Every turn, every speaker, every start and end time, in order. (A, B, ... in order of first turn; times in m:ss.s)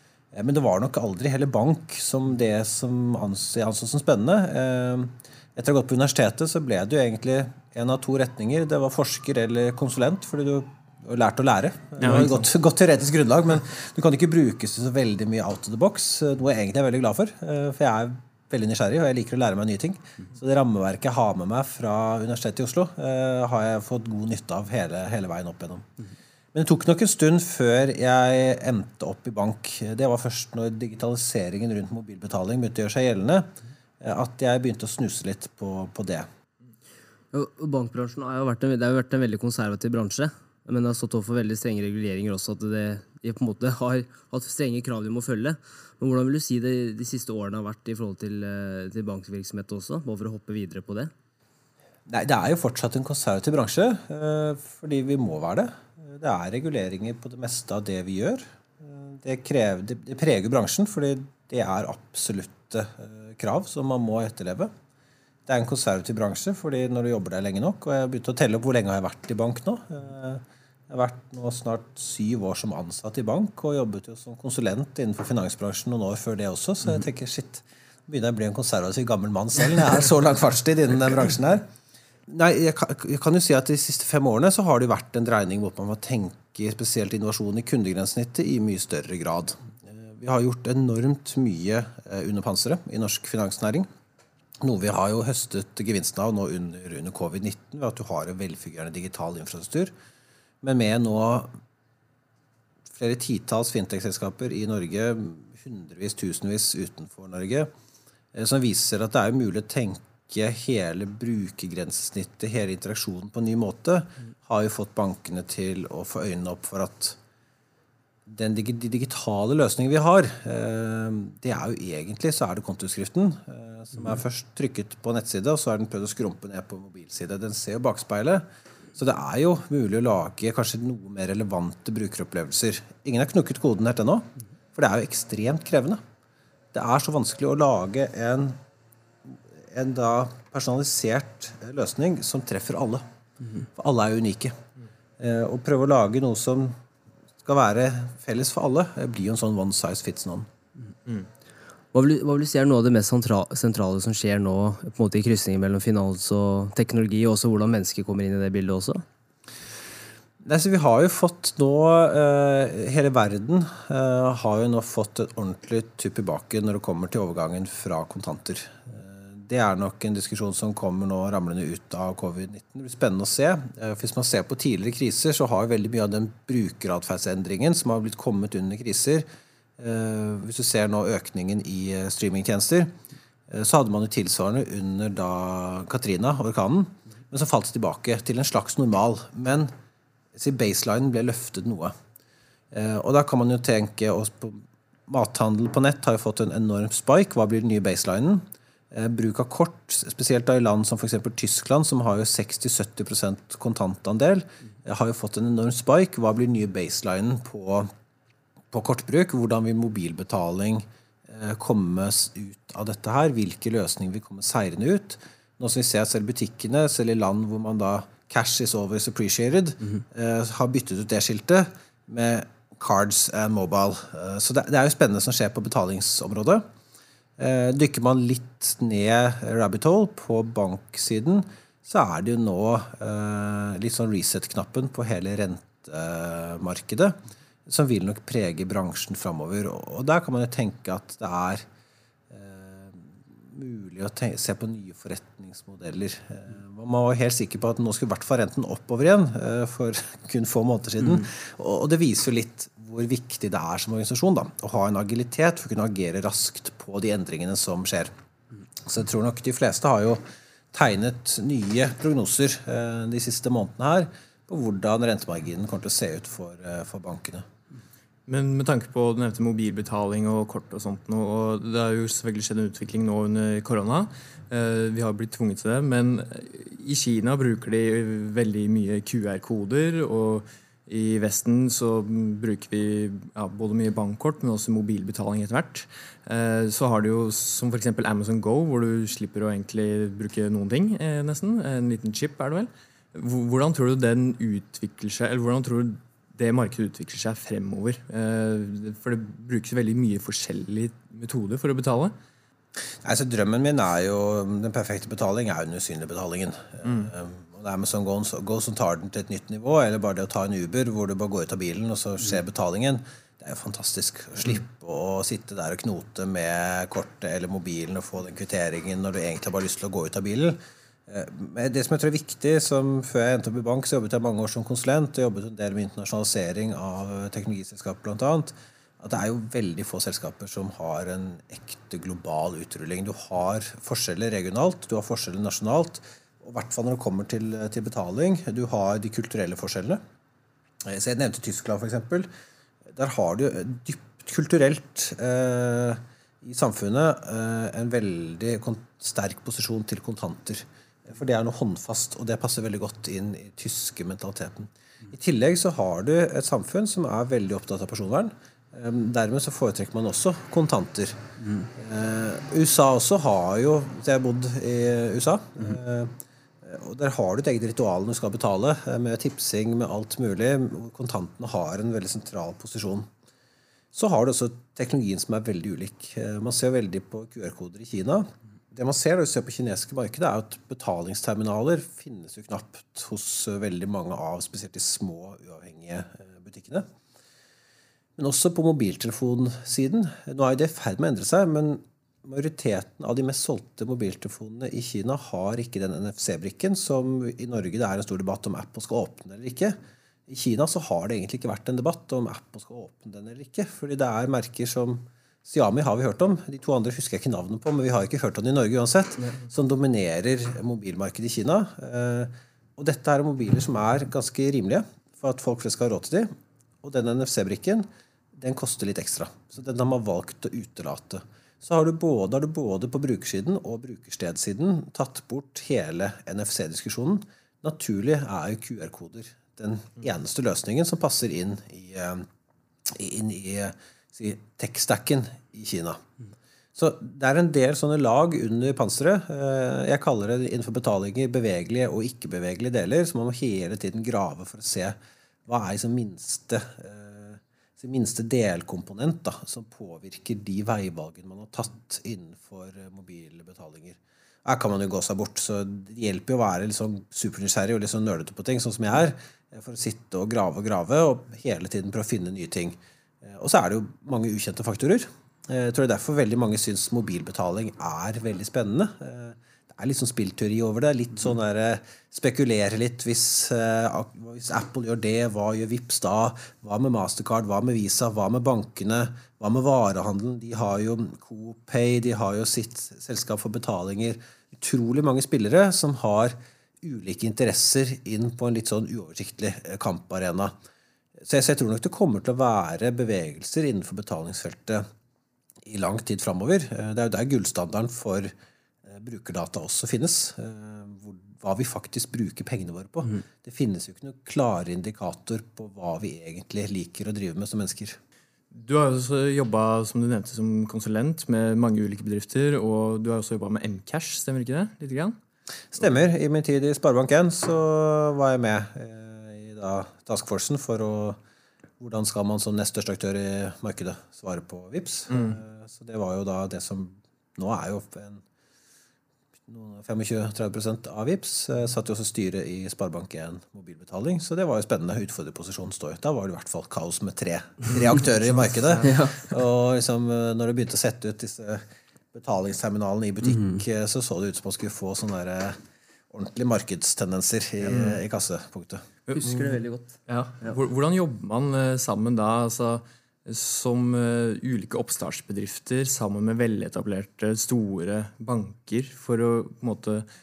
0:00.3-0:25.9 A
0:12.0-0:12.4 B
0:26.5-0:36.3 A
0:37.3-0:51.1 C
0:52.0-1:04.7 A
1:05.4-1:21.6 A
1:22.3-1:33.9 A
1:34.6-1:39.9 A
1:40.6-1:41.5 A
1:42.9-1:47.7 A
1:48.3-1:57.2 A
1:58.2-2:16.0 A
2:16.7-2:18.6 A
2:19.2-2:23.0 A
2:23.6-2:24.6 A
2:25.2-2:26.8 A
2:27.4-2:30.5 A
2:31.9-2:39.0 C
2:40.4-2:59.2 A
2:59.8-3:02.9 A
3:03.5-3:09.7 A
3:10.3-3:11.9 A
3:12.7-3:27.9 A
3:28.7-3:46.6 A
3:47.4-4:01.6 A
4:02.3-4:18.1 A
4:18.8-4:27.4 A
4:28.3-5:02.1 B
5:03.0-5:40.0 A
5:06.8-5:07.1 B
5:40.8-5:42.3 A
5:42.9-6:01.2 A
6:01.8-6:13.1 A
6:13.9-6:26.9 A
6:28.2-6:56.3 A
6:56.8-7:12.3 A
7:12.8-7:16.0 A
7:16.7-8:10.5 A
8:11.2-8:14.8 A
8:15.6-8:18.3 A
8:18.8-8:28.0 A
8:28.5-8:35.2 B
8:35.7-8:41.2 A
8:41.8-8:48.2 A
8:45.1-8:45.4 B
8:49.5-9:09.0 A
8:58.3-8:58.9 B
8:58.8-8:59.2 C
9:07.7-9:08.0 B
9:09.1-9:09.5 B
9:09.1-9:10.6 C
9:10.0-9:20.1 B